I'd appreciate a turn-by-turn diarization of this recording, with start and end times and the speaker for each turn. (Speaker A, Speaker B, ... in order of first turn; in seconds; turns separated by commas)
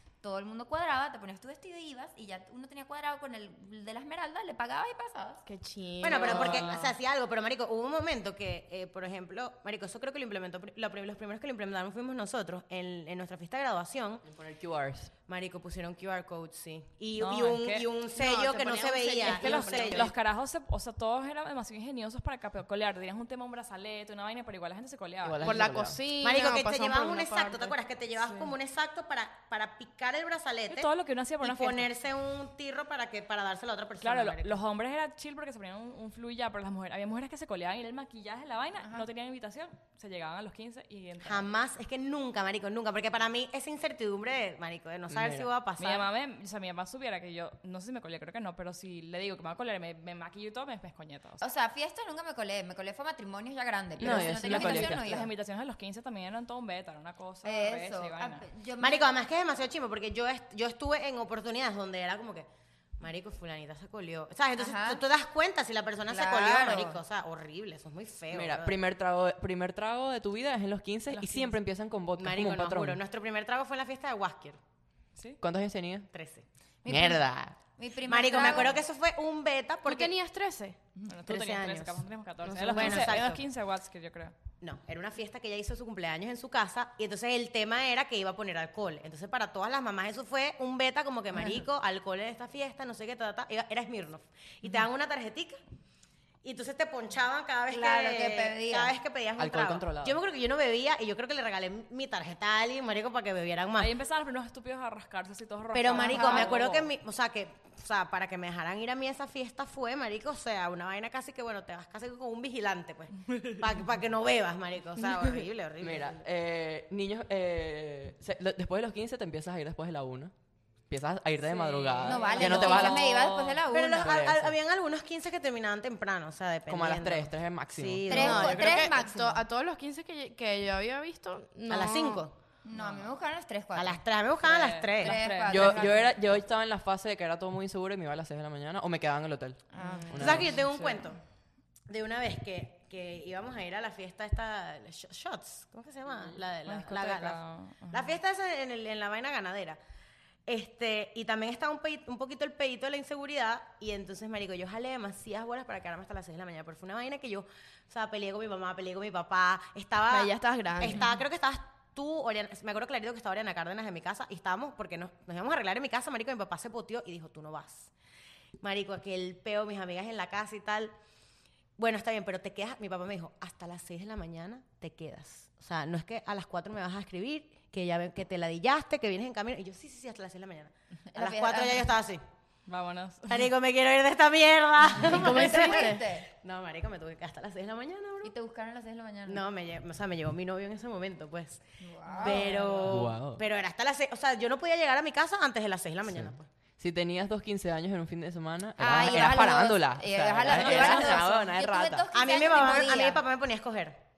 Speaker A: 0.2-5.4, Speaker B: 5.5-6.9, Speaker C: 6.0-14.2, Speaker D: 6.1-6.8, Speaker E: 14.2-15.1, Speaker C: 15.3-20.1, Speaker D: 17.2-17.9, Speaker B: 18.1-20.1, Speaker D: 19.2-25.6, Speaker E: 25.2-26.0, Speaker B: 25.4-27.8, Speaker C: 26.2-30.9, Speaker D: 28.2-28.5, Speaker D: 30.7-31.9, Speaker C: 31.4-34.6, Speaker D: 34.0-41.5, Speaker C: 41.2-46.1, Speaker E: 45.1-45.5, Speaker D: 45.8-51.5, Speaker A: 51.4-55.3, Speaker E: 54.0-55.3, Speaker D: 54.2-58.4, Speaker A: 57.4-59.1, Speaker C: 58.8-62.5, Speaker C: 63.0-68.8, Speaker A: 64.6-65.0, Speaker A: 66.1-67.0, Speaker E: 68.3-73.0, Speaker D: 71.1-71.6, Speaker C: 72.2-74.6, Speaker E: 75.4-76.1, Speaker C: 76.1-76.4, Speaker A: 76.8-78.8, Speaker E: 76.9-77.5, Speaker C: 78.0-80.1, Speaker B: 79.9-80.8, Speaker D: 81.0-84.3, Speaker C: 81.3-82.0, Speaker B: 82.5-83.1, Speaker C: 82.6-83.4, Speaker C: 84.6-95.6, Speaker C: 96.4-103.9, Speaker A: 97.7-99.0, Speaker E: 99.4-100.2, Speaker D: 103.8-106.9, Speaker C: 105.7-116.2, Speaker A: 105.9-106.5, Speaker E: 115.8-120.3, Speaker E: 120.9-123.1, Speaker D: 121.5-123.6, Speaker A: 122.0-124.2, Speaker C: 122.4-123.0, Speaker C: 123.7-128.9, Speaker E: 124.0-124.5, Speaker E: 126.7-128.3, Speaker A: 128.1-129.4, Speaker B: 128.1-132.2, Speaker C: 131.7-132.3, Speaker A: 132.6-134.0, Speaker D: 132.7-133.1, Speaker C: 133.8-135.2, Speaker D: 134.4-135.8, Speaker A: 135.0-136.2, Speaker E: 135.4-140.7, Speaker A: 139.7-140.3, Speaker D: 139.8-141.0, Speaker C: 140.2-141.2, Speaker C: 141.9-147.4, Speaker D: 146.7-148.2, Speaker C: 147.9-149.8, Speaker C: 150.5-167.9, Speaker B: 160.1-161.0, Speaker C: 168.6-170.9, Speaker C: 171.8-182.2, Speaker A: 181.1-181.9, Speaker D: 182.7-183.5, Speaker C: 183.3-188.3, Speaker A: 185.0-186.3, Speaker B: 185.1-186.0, Speaker A: 188.2-189.4, Speaker C: 189.3-191.6, Speaker A: 191.8-193.0, Speaker D: 192.1-192.6, Speaker C: 192.2-196.5, Speaker E: 192.9-193.4, Speaker E: 196.1-202.1, Speaker A: 198.8-203.2, Speaker D: 200.6-201.0, Speaker C: 202.1-204.0